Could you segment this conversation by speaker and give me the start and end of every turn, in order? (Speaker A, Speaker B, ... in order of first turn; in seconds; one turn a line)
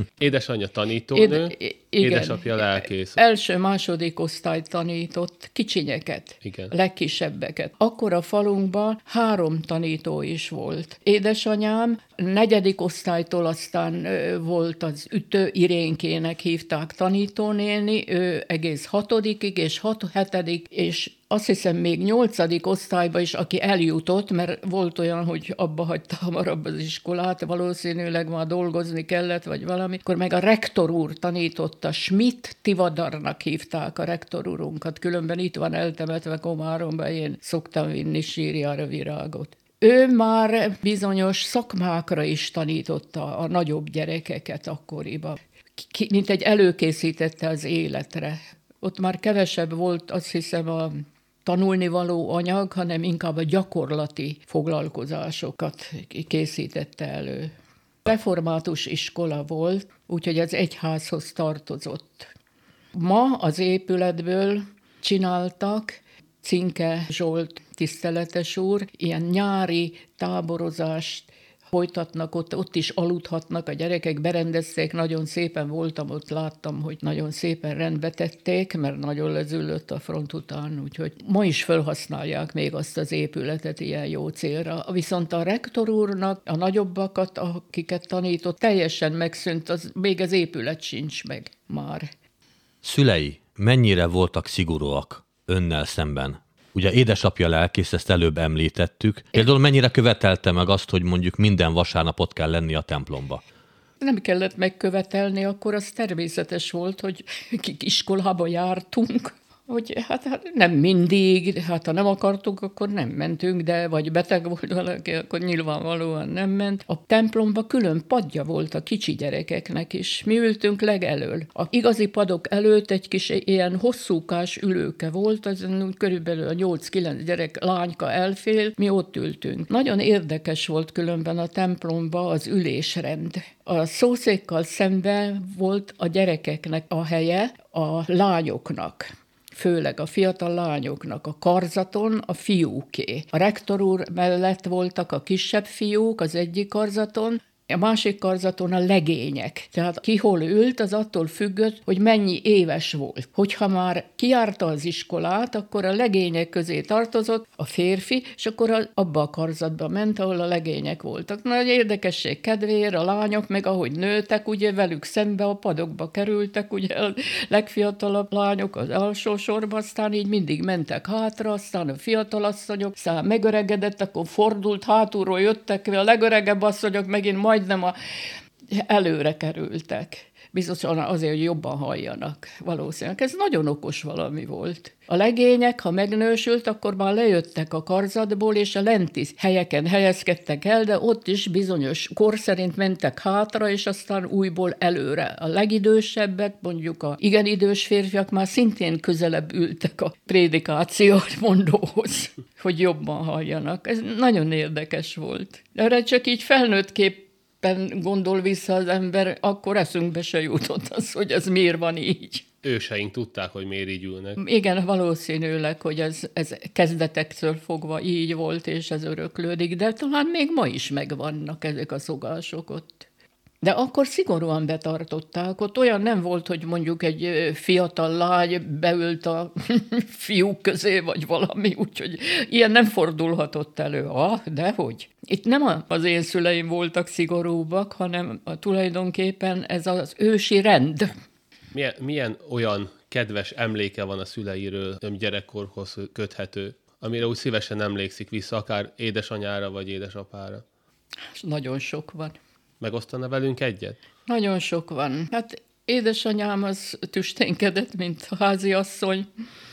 Speaker A: 0.2-3.2
Speaker B: 1.1-57.5
Speaker A: 6.4-6.7
Speaker B: 58.0-62.3
Speaker B: 62.9-92.1
Speaker C: 92.8-103.4
Speaker B: 104.0-177.9
Speaker B: 178.7-212.4
Speaker A: 212.6-214.4
Speaker B: 214.4-223.1
Speaker B: 223.6-241.1
Speaker A: 241.7-250.6
Speaker B: 251.3-252.3
Speaker A: 252.8-254.0
Speaker B: 254.3-259.3